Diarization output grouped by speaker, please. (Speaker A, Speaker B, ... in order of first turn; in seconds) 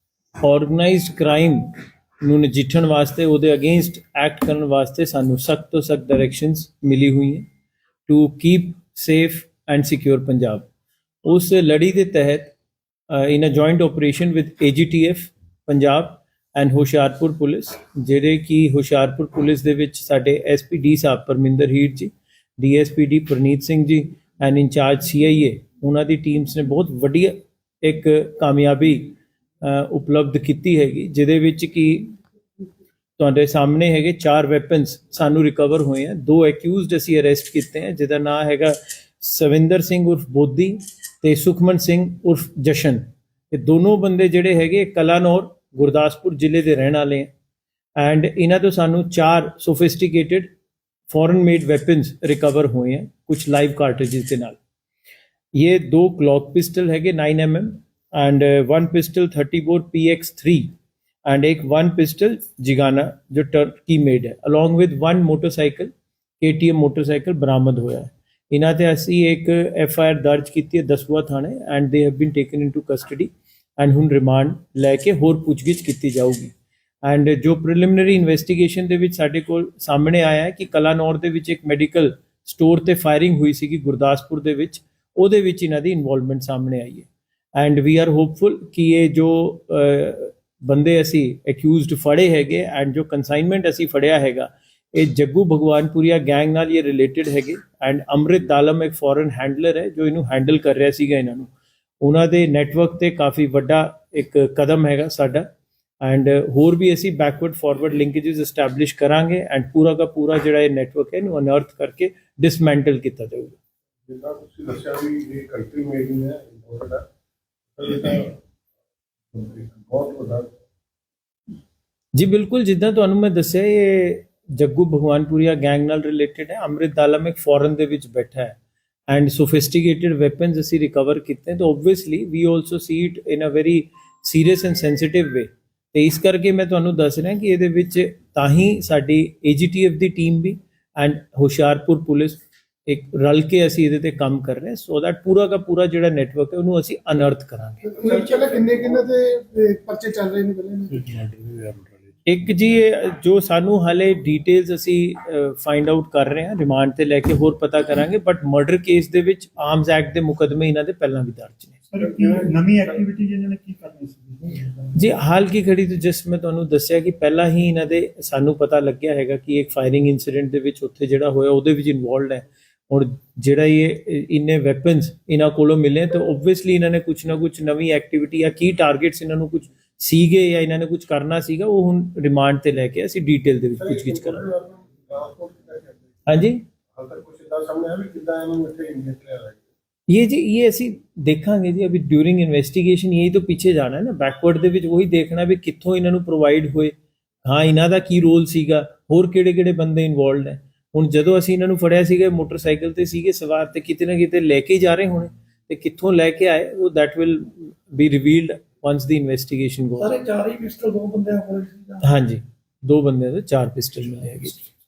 Speaker A: 0.4-1.7, 2.2-7.5, 8.1-10.7, 11.2-12.5, 13.1-32.1, 33.2-47.3, 48.0-50.5, 51.1-54.6, 55.5-60.7, 61.2-76.5, 77.0-105.5, 106.0-113.6, 122.2-128.6, 129.1-147.9, 152.3-161.8, 164.9-184.4, 186.3-186.6, 190.1-210.2, 212.0-214.6
Speaker B: 114.1-117.0, 117.8-118.4, 119.3-120.5, 148.0-149.0, 183.8-186.1, 186.9-189.7
Speaker C: 147.9-151.1
Speaker D: 161.9-164.9, 210.0-212.0